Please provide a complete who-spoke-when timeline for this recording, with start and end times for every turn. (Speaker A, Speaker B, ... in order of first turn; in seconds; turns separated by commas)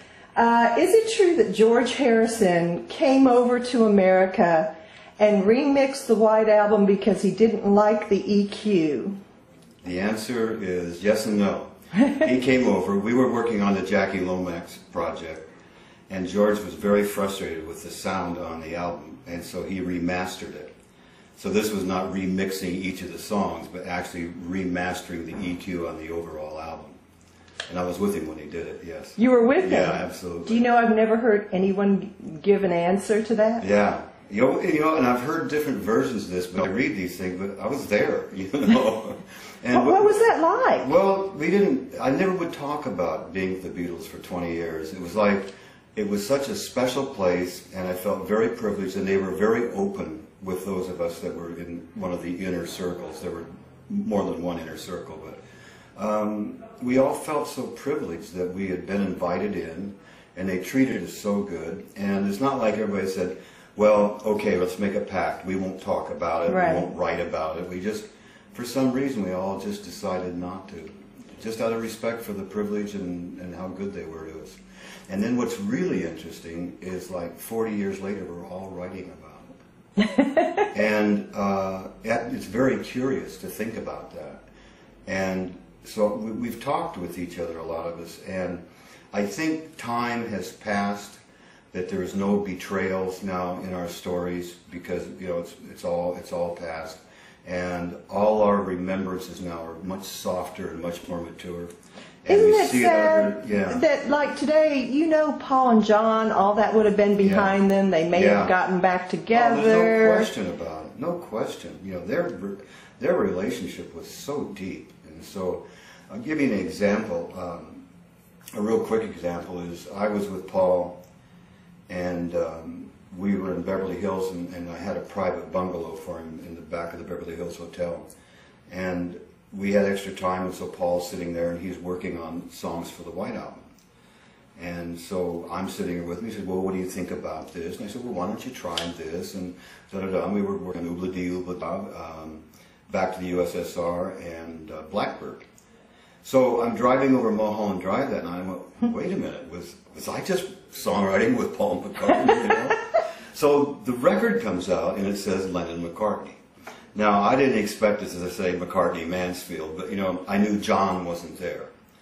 Speaker A: 0.4-9.2, Speaker B: 9.8-15.5, Speaker B: 16.1-20.7, Speaker B: 21.4-27.0, Speaker B: 27.7-30.6, Speaker A: 29.2-33.7, Speaker B: 33.6-40.1, Speaker A: 39.7-40.9, Speaker B: 40.8-55.4, Speaker B: 56.0-79.5, Speaker A: 66.5-66.9, Speaker B: 80.7-84.4, Speaker B: 85.1-91.2, Speaker B: 91.7-101.7, Speaker B: 102.2-103.8, Speaker A: 102.3-110.3, Speaker B: 107.2-107.6, Speaker B: 108.1-108.5, Speaker B: 109.3-117.8, Speaker B: 118.6-121.0, Speaker B: 121.9-128.1, Speaker B: 128.7-133.7, Speaker B: 134.6-145.4, Speaker B: 146.2-156.4, Speaker B: 156.9-161.7